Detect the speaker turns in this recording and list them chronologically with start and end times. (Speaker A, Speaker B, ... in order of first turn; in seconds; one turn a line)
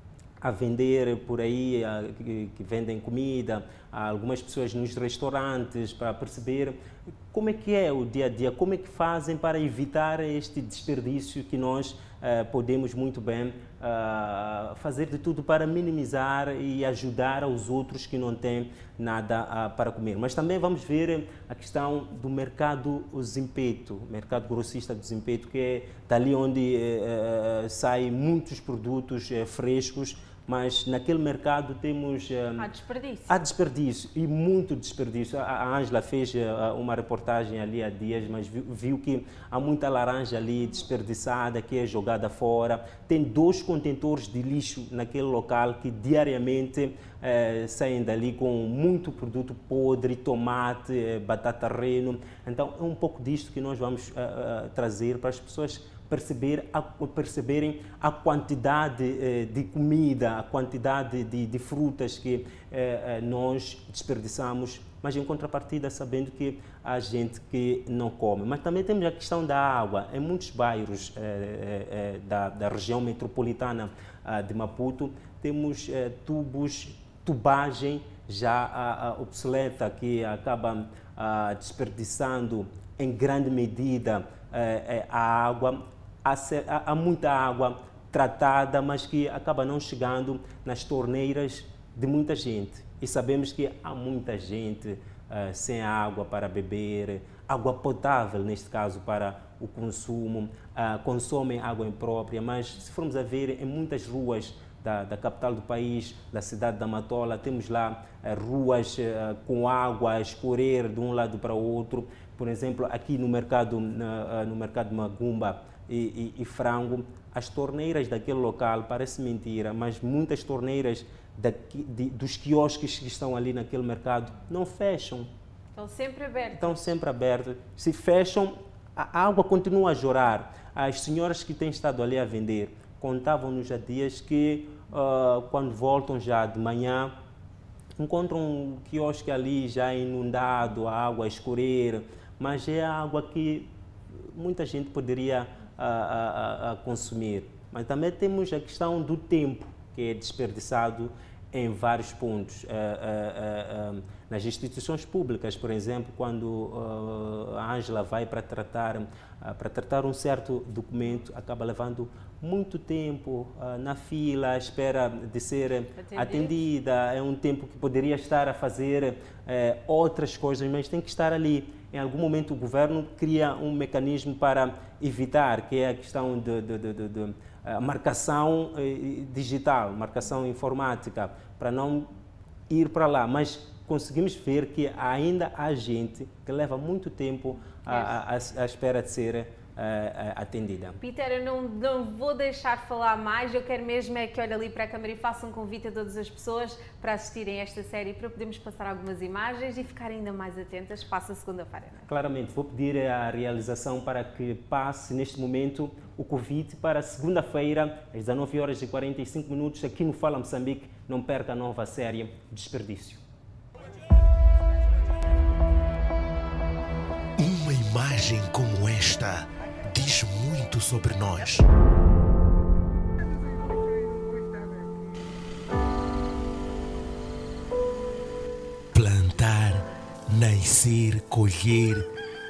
Speaker A: 0.4-6.8
Speaker A: 7.3-32.7
Speaker B: 32.6-33.4
Speaker A: 33.3-125.3
Speaker B: 125.8-126.8
Speaker A: 126.5-137.2
Speaker A: 138.0-143.7
Speaker A: 144.3-182.1
Speaker B: 166.0-166.6
Speaker A: 182.7-191.0
Speaker B: 187.9-188.1
Speaker B: 191.0-202.1
Speaker A: 202.1-213.2
Speaker C: 217.4-221.6
Speaker C: 228.9-232.1